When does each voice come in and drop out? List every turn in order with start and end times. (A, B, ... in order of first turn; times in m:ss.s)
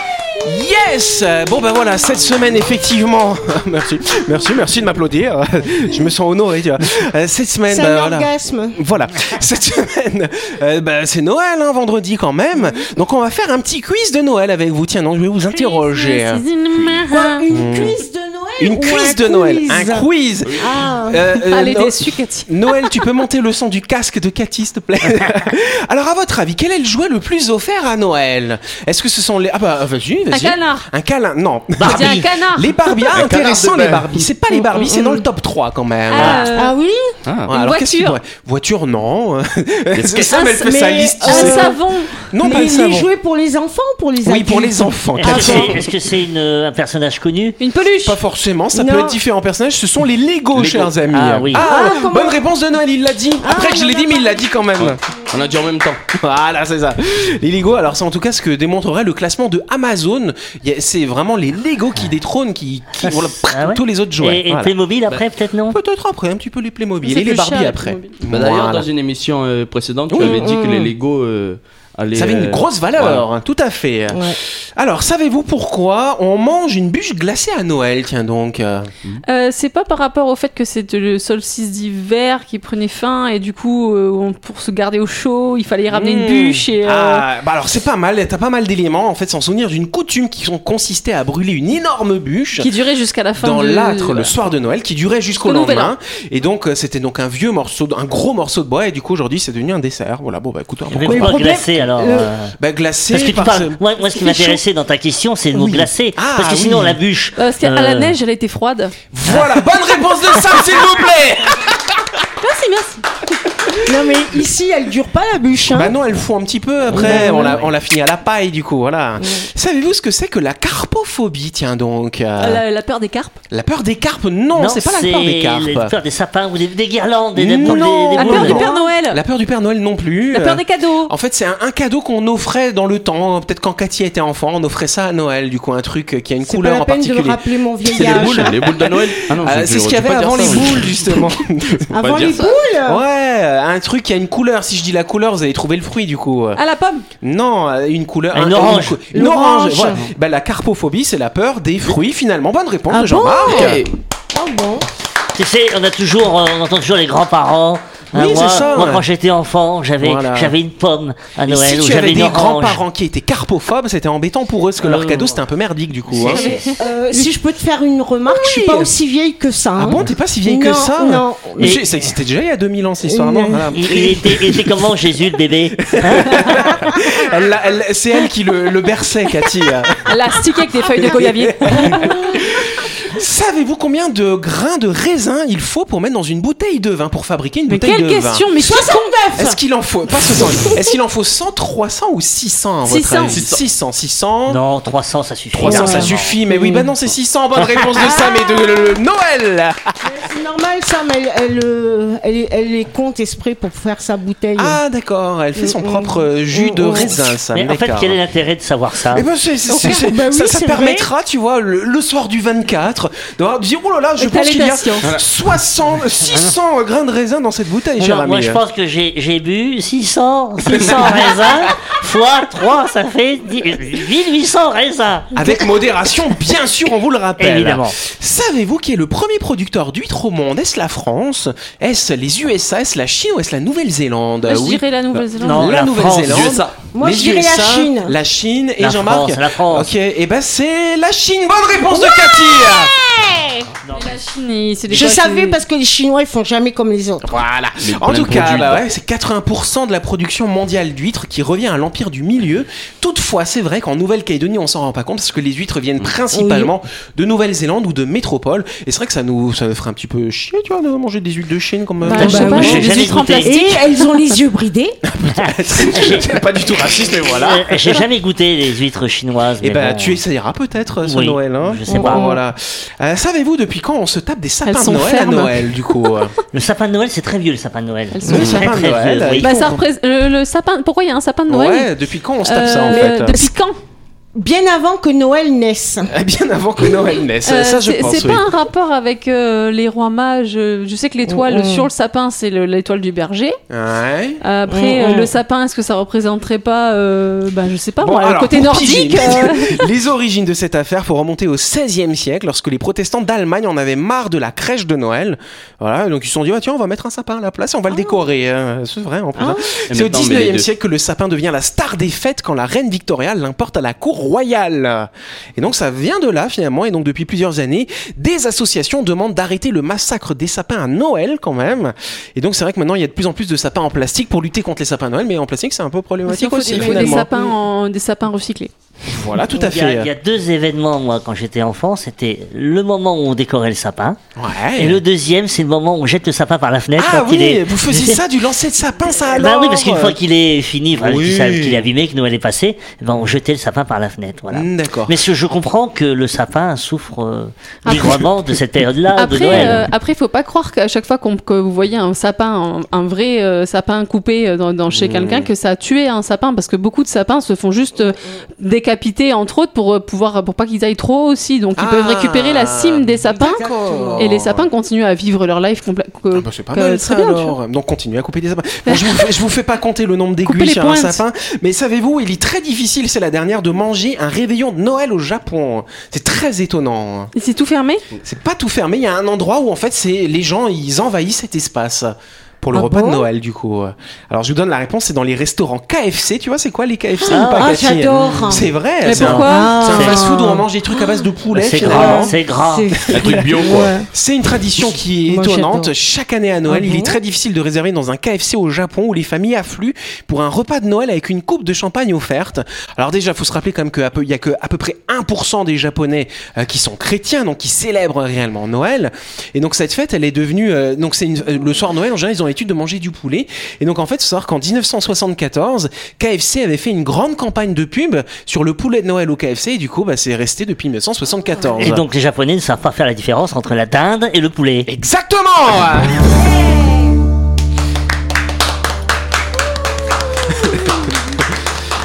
0:00.4-0:16.4 A
0:07.7-0:08.8 B
0:15.5-0:17.4 C
0:17.1-0:20.0 B
0:17.5-0:18.0 A
0:18.6-0:36.6 A
0:20.6-0:21.2 B
0:21.4-0:23.0 C
0:30.3-0:30.9 C
0:31.8-0:32.2 D
0:31.8-0:33.3 C
0:33.2-0:34.1 E
0:34.5-0:35.2 B
0:36.1-0:36.7 C
0:36.3-0:37.0 B
0:37.2-0:37.5 E
0:37.5-0:43.1 A
0:37.5-0:38.2 C
0:39.9-0:40.3 E
0:40.3-0:40.7 C
0:40.4-0:41.8 B
0:41.2-0:42.3 C
0:42.4-0:45.6 B
0:44.2-0:45.9 A
0:45.2-0:47.6 D
0:45.3-0:45.6 C
0:47.6-0:48.2 C
0:48.0-0:55.0 A
0:48.7-0:49.2 B
0:50.5-0:51.0 E
0:51.1-0:51.7 D
0:51.6-0:52.4 B
0:53.4-0:54.6 B
0:54.8-0:56.0 E
0:56.1-1:04.8 A
1:03.0-1:05.8 D
1:05.7-1:08.9 A
1:07.0-1:08.2 C
1:08.3-1:13.2 E
1:10.1-1:10.5 A
1:10.2-1:10.9 B
1:12.1-1:18.9 A
1:14.1-1:14.4 B
1:19.2-1:27.2 C
1:25.9-1:32.7 A
1:32.6-1:34.4 C
1:33.4-1:41.4 A
1:35.4-1:35.9 C
1:40.9-1:42.5 D
1:41.0-1:42.3 B
1:42.6-1:44.6 A
1:43.1-1:48.1 D
1:45.5-1:47.0 A
1:47.4-1:49.0 C
1:49.1-1:52.0 A
1:52.4-1:53.0 C
1:53.8-1:55.9 B
1:55.7-2:02.6 A
1:56.9-1:57.6 B
2:02.4-2:03.4 C
2:03.5-2:05.9 A
2:04.6-2:08.6 D
2:07.4-2:21.9 A
2:08.2-2:09.2 C
2:08.4-2:08.9 B
2:10.3-2:11.1 C
2:16.4-2:18.6 B
2:17.9-2:21.2 E
2:21.9-2:23.0 B
2:22.0-2:22.5 E
2:22.2-2:22.6 C
2:22.8-2:26.6 A
2:26.6-2:27.0 C
2:27.2-2:33.8 A
2:28.3-2:29.0 D
2:29.1-2:30.1 B
2:32.9-2:33.8 B
2:33.4-2:33.9 E
2:34.3-2:34.9 B
2:35.3-2:42.8 D
2:38.1-2:39.0 A
2:40.0-2:40.5 A
2:41.4-2:46.5 A
2:44.8-2:45.4 D
2:46.1-2:46.6 D
2:46.2-2:47.3 C
2:46.8-2:51.8 B
2:48.3-2:48.9 A
2:49.8-2:54.8 A
2:53.1-2:53.7 B
2:53.7-2:56.9 D
2:55.8-3:00.0 A
3:00.0-3:02.1 C
3:00.9-3:08.4 A
3:01.9-3:02.2 B
3:07.7-3:09.1 C
3:08.6-3:09.6 B
3:09.4-3:14.6 A
3:10.3-3:10.8 B
3:12.8-3:13.4 C
3:13.2-3:13.6 E
3:14.5-3:16.4 D
3:15.5-3:19.9 A
3:15.6-3:16.9 B
3:17.8-3:18.9 B
3:20.0-3:24.8 B
3:24.6-3:28.2 A
3:25.6-3:27.1 B
3:27.5-3:29.2 D
3:29.1-3:38.6 A
3:29.7-3:30.0 C
3:29.7-3:31.1 B
3:34.2-3:35.1 C
3:38.0-3:45.3 D
3:40.7-3:41.6 A
3:45.3-3:54.8 A
3:47.4-3:48.0 D
3:54.5-3:55.8 C
3:55.4-3:56.6 D
3:55.5-4:02.9 A
3:56.0-3:56.8 E
3:56.9-3:58.1 B
3:58.8-3:59.9 D
4:01.8-4:03.7 B
4:03.8-4:04.1 D
4:03.9-4:05.6 C
4:04.9-4:07.3 B
4:07.2-4:22.9 A
4:07.8-4:08.9 E
4:16.3-4:16.7 B
4:22.0-4:24.2 C
4:22.1-4:22.9 B
4:22.2-4:23.7 D
4:23.4-4:25.0 B
4:25.1-4:28.0 A
4:25.3-4:26.3 D
4:27.4-4:30.2 D
4:29.6-4:36.3 A
4:31.0-4:32.3 D
4:31.9-4:32.4 B
4:34.6-4:36.2 C
4:36.5-4:39.5 D
4:38.1-4:38.7 C
4:38.2-4:38.5 B
4:38.3-4:39.8 A
4:39.4-4:41.9 C
4:41.5-4:43.4 A
4:42.4-4:43.8 C
4:42.9-4:43.5 B
4:44.3-4:46.1 B
4:46.1-4:48.5 A
4:47.4-4:53.6 C
4:51.3-4:51.9 B
4:53.7-4:54.4 A
4:54.4-4:59.9 C
4:54.7-4:55.3 B
4:58.0-5:27.3 A
5:07.9-5:08.2 B
5:09.4-5:09.7 B
5:09.9-5:10.7 E
5:26.3-5:28.7 C
5:26.7-5:27.5 B
5:29.1-5:30.1 A
5:29.5-5:34.2 D
5:34.4-5:35.0 A
5:34.8-5:38.2 D
5:37.0-5:40.2 A
5:39.3-5:49.8 D
5:41.0-5:41.9 A
5:44.5-5:45.2 A
5:47.8-5:48.3 C
5:47.9-5:48.3 A
5:49.2-6:03.6 C
5:49.5-5:49.8 A
5:54.9-5:55.5 A
6:01.8-6:04.7 A
6:03.2-6:04.3 B
6:04.2-6:07.6 C
6:06.3-6:17.3 A
6:08.8-6:09.3 C
6:10.4-6:11.2 C
6:17.3-6:18.0 C
6:18.2-6:32.4 A
6:22.7-6:23.2 B
6:27.2-6:28.7 B
6:27.3-6:28.6 D
6:29.0-6:30.1 C
6:29.1-6:30.2 D
6:29.2-6:31.2 B
6:31.5-6:32.9 D
6:31.8-6:34.1 B
6:33.1-6:34.0 E
6:33.1-7:02.0 A
6:35.3-6:35.9 B
6:36.7-6:37.2 B
7:01.8-7:04.9 D
7:04.8-7:06.4 A
7:10.5-7:10.8 A